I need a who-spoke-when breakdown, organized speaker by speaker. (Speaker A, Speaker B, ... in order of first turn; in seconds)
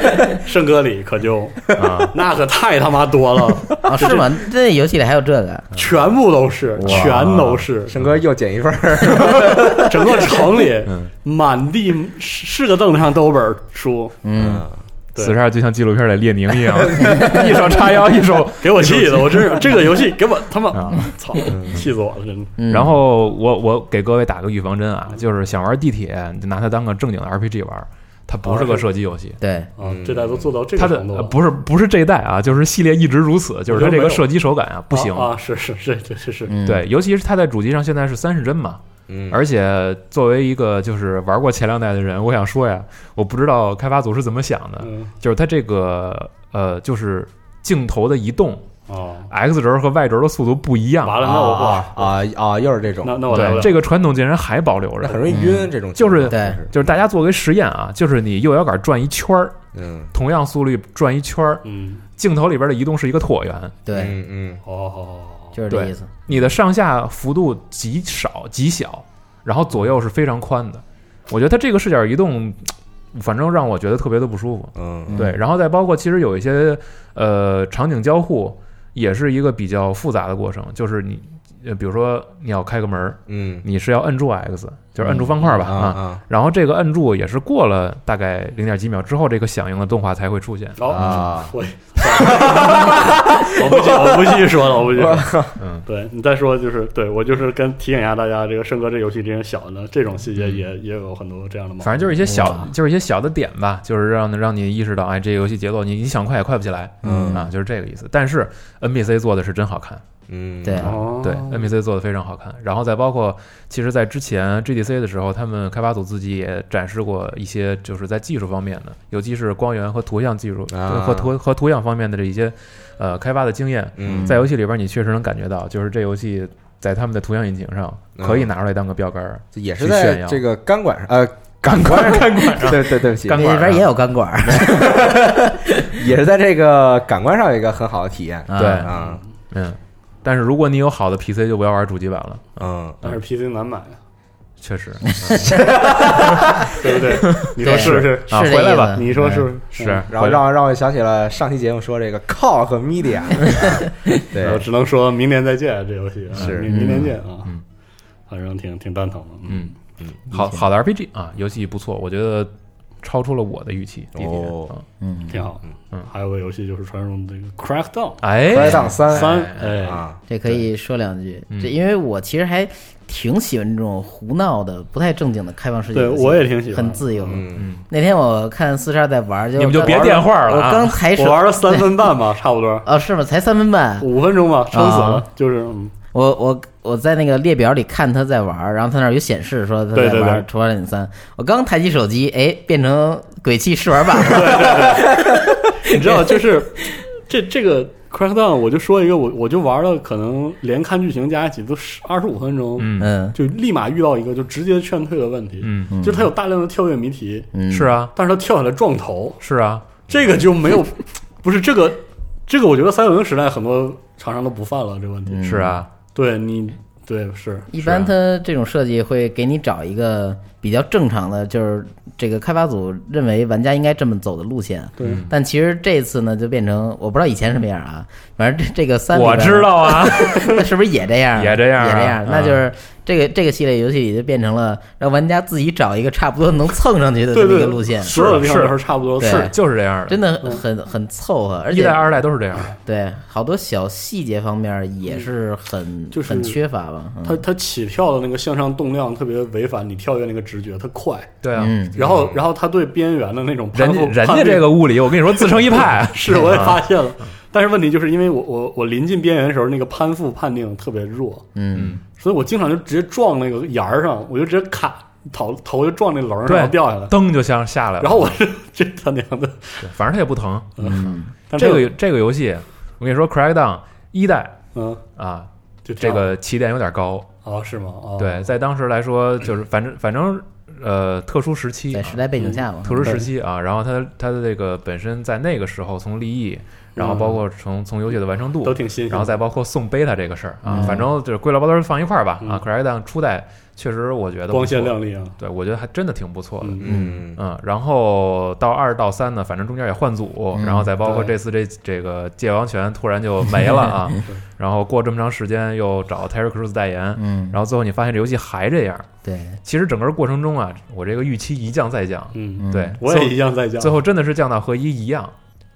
Speaker A: 0.3-4.3, 5.7-7.9, 9.5-14.2, 18.6-22.5, 28.4-28.8, 29.8-31.4, 33.7-34.3, 34.9-36.5, 44.8-45.1, 48.9-49.3, 51.0-52.1, 53.0-53.7, 61.6-62.0, 64.6-65.6, 90.8-102.2, 110.8-111.7, 143.0-144.0, 146.8-150.0, 154.4-157.5, 158.3-159.7, 165.3-170.0, 175.9-177.4, 179.8-180.2, 181.0-182.8, 184.0-185.9, 189.9-190.4, 194.2-195.3, 195.8-207.5, 208.1-209.4, 210.1-215.4, 216.1-217.8, 225.0-225.2, 237.3-239.5, 246.1-246.6, 247.2-251.3, 251.9-261.5, 262.2-267.1, 268.0-269.9, 270.8-271.9, 274.7-275.0, 275.8-276.3, 277.4-278.5, 282.4-283.2, 286.9-287.4, 288.6-289.4, 290.7-291.0, 294.5-295.4, 296.6-296.9, 301.0-301.3, 312.3-314.0
Speaker B: 1.7-2.1, 6.8-8.2, 10.8-11.1, 15.2-19.8, 20.7-21.1, 22.7-29.4, 30.8-35.3, 36.6-48.7, 49.3-51.3, 53.3-55.4, 56.0-59.6, 60.1-61.6, 62.2-63.7, 65.7-91.2, 95.6-95.8, 100.3-100.6, 101.8-110.0, 110.8-130.4, 131.7-133.9, 138.6-138.9, 139.5-143.2, 144.6-145.5, 147.1-149.0, 149.8-150.4, 156.3-156.6, 159.5-159.7, 160.3-162.5, 163.0-164.8, 168.2-169.8, 177.6-177.8, 179.6-180.9, 202.8-203.1, 205.6-205.9, 207.7-208.1, 209.4-209.8, 215.4-215.9, 225.0-225.3, 229.1-230.6, 231.3-232.6, 238.0-240.2, 241.7-242.7, 251.4-251.8, 253.7-256.8, 261.7-262.0, 266.4-268.4, 269.8-274.6, 275.1-277.3, 278.2-282.2, 282.8-296.8, 297.4-309.1, 309.6-315.3
Speaker C: 3.8-5.7, 6.8-7.5, 14.2-14.7, 17.1-17.4, 22.6-23.0, 29.4-29.7, 36.5-36.9, 55.3-55.7, 56.3-56.6, 63.9-64.2, 65.5-66.1, 75.1-75.4, 85.0-85.3, 102.2-102.7, 107.0-107.5, 110.6-110.9, 124.0-124.4, 133.2-136.0, 138.5-138.9, 145.2-145.6, 147.6-149.5, 153.5-154.1, 156.7-157.2, 160.3-160.6, 165.0-165.4, 170.3-182.0, 182.8-184.1, 184.7-185.2, 186.1-196.4, 203.0-203.4, 205.9-206.3, 207.5-207.9, 215.3-215.8, 217.7-238.4, 239.2-239.5, 240.1-242.2, 242.7-247.4, 251.6-252.0, 261.5-262.0, 270.8-271.3, 281.9-283.2, 290.6-291.1, 296.8-297.2, 300.5-300.9, 307.2-307.6, 309.2-309.6, 312.6-313.0
Speaker D: 7.9-10.4, 14.3-14.8, 16.8-17.2, 21.5-21.8, 29.8-30.5, 39.1-39.4, 51.2-53.6, 55.0-56.9, 59.7-60.1, 63.9-64.6, 74.7-75.2, 83.3-83.6, 85.4-86.2, 90.9-95.6, 107.0-107.4, 110.3-110.9, 120.7-121.3, 124.0-124.3, 128.2-128.5, 129.5-133.5, 134.6-135.3, 135.9-139.2, 142.6-143.0, 145.4-146.5, 150.1-154.6, 156.4-156.7, 164.1-164.7, 168.5-170.2, 177.2-177.7, 252.0-252.4, 296.8-297.4